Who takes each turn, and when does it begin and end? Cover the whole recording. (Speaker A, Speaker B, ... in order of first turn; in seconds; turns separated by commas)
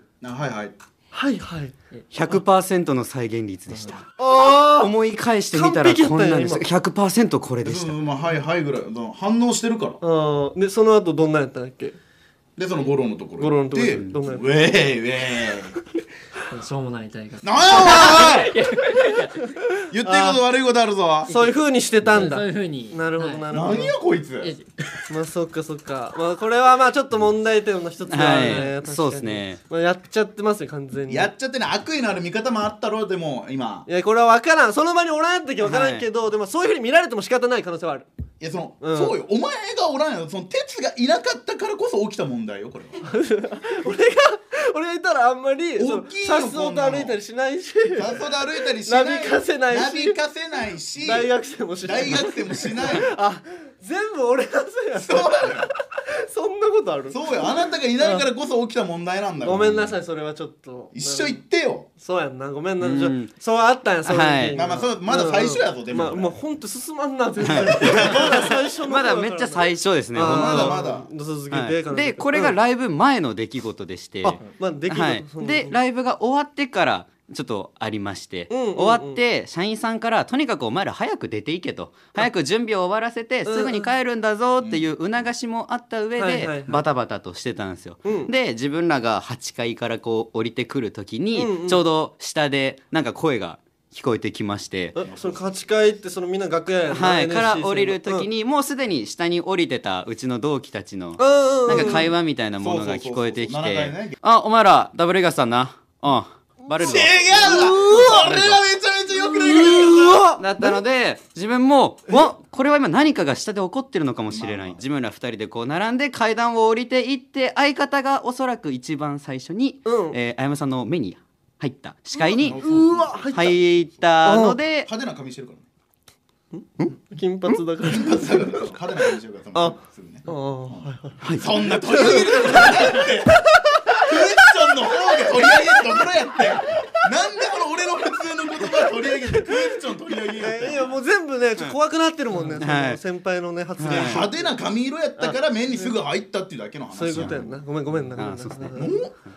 Speaker A: 0.2-0.8, Speaker B: 1.1-1.8, Speaker C: 2.1-8.0, Speaker B: 4.2-4.9, Speaker B: 5.5-6.7, Speaker A: 7.6-10.0, Speaker B: 10.0-12.0, Speaker A: 12.6-15.8, Speaker B: 13.4-14.6, Speaker D: 16.5-19.6, Speaker A: 17.4-18.6, Speaker A: 19.9-21.3, Speaker B: 20.0-20.4, Speaker B: 21.3-24.0, Speaker D: 22.0-23.4, Speaker A: 23.5-24.5, Speaker D: 24.4-24.7, Speaker B: 25.1-31.3, Speaker C: 28.1-29.6, Speaker A: 31.1-33.9, Speaker B: 33.9-38.1, Speaker C: 35.6-36.0, Speaker A: 38.4-43.0, Speaker B: 38.8-39.2, Speaker B: 43.0-50.2, Speaker A: 45.8-47.2, Speaker A: 48.0-51.3, Speaker B: 51.0-58.3, Speaker A: 51.8-53.1, Speaker A: 55.0-55.7, Speaker A: 57.1-59.9, Speaker B: 59.4-61.4, Speaker A: 60.9-61.9, Speaker B: 62.0-72.6, Speaker C: 62.8-63.3, Speaker C: 64.0-64.6, Speaker A: 64.5-66.4, Speaker C: 67.4-70.8, Speaker A: 67.8-68.4, Speaker A: 70.2-71.1, Speaker C: 71.5-95.0, Speaker B: 74.2-75.8, Speaker B: 78.5-79.2, Speaker B: 83.5-83.9, Speaker A: 84.6-84.9, Speaker B: 86.2-86.8, Speaker B: 88.0-88.3, Speaker B: 91.3-91.8, Speaker B: 95.0-98.3, Speaker A: 95.0-95.4, Speaker C: 96.9-108.5, Speaker B: 101.2-102.1, Speaker A: 101.7-102.0, Speaker A: 102.6-104.2, Speaker B: 106.7-108.5, Speaker A: 106.8-110.3, Speaker B: 109.2-110.8, Speaker C: 110.4-122.6, Speaker A: 114.3-114.8, Speaker B: 119.8-120.2, Speaker B: 122.2-123.5, Speaker A: 122.4-123.7, Speaker C: 123.3-124.9, Speaker B: 124.2-124.6, Speaker A: 124.8-125.7, Speaker B: 126.5-128.7, Speaker A: 127.8-141.0, Speaker B: 129.6-136.4, Speaker B: 138.9-139.6, Speaker B: 140.4-144.5, Speaker C: 142.6-143.0, Speaker C: 143.8-144.2, Speaker A: 143.9-147.5, Speaker B: 145.2-145.9, Speaker B: 146.9-149.0, Speaker C: 148.2-148.9, Speaker A: 148.7-149.1